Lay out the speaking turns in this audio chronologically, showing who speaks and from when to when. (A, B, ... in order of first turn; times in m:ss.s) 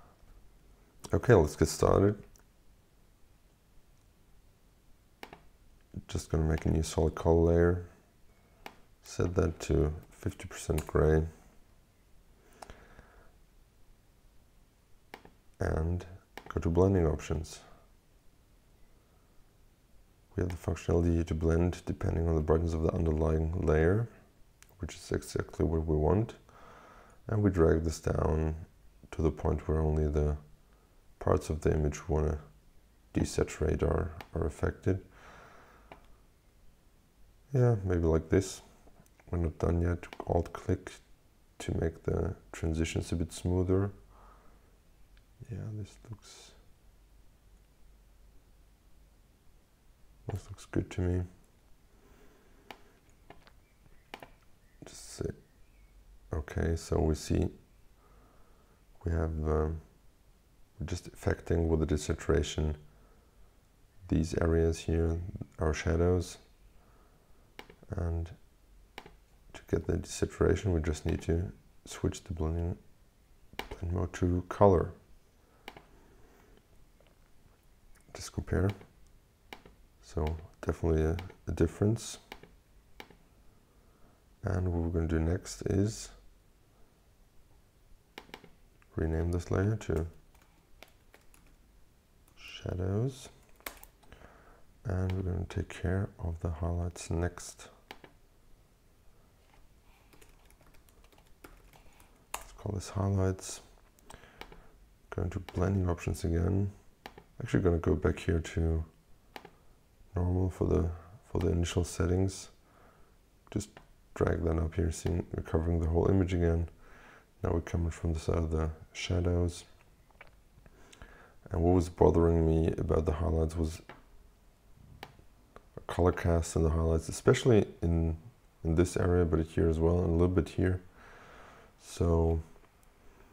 0:01.1-0:02.2 A
0:06.1-0:08.2 A
0:09.0-0:11.3 A
0:15.6-0:17.7 A
0:20.3-0:35.2 A
0:37.5-0:44.1 A
0:45.4-0:46.6 A
0:50.3-0:51.3 A
0:54.8-0:57.7 A
0:59.0-1:02.9 A
1:04.0-1:06.5 A
1:07.9-1:08.8 A
1:09.5-1:15.0 A
1:18.1-1:18.9 A
1:20.0-1:22.3 A
1:24.4-1:26.2 A
1:28.9-1:30.1 A
1:32.4-1:33.4 A
1:34.8-1:37.7 A
1:42.4-1:43.9 A
1:45.1-1:49.0 A
1:50.1-1:52.8 A
1:53.5-1:59.7 A
2:01.4-2:03.8 A
2:05.8-2:12.5 A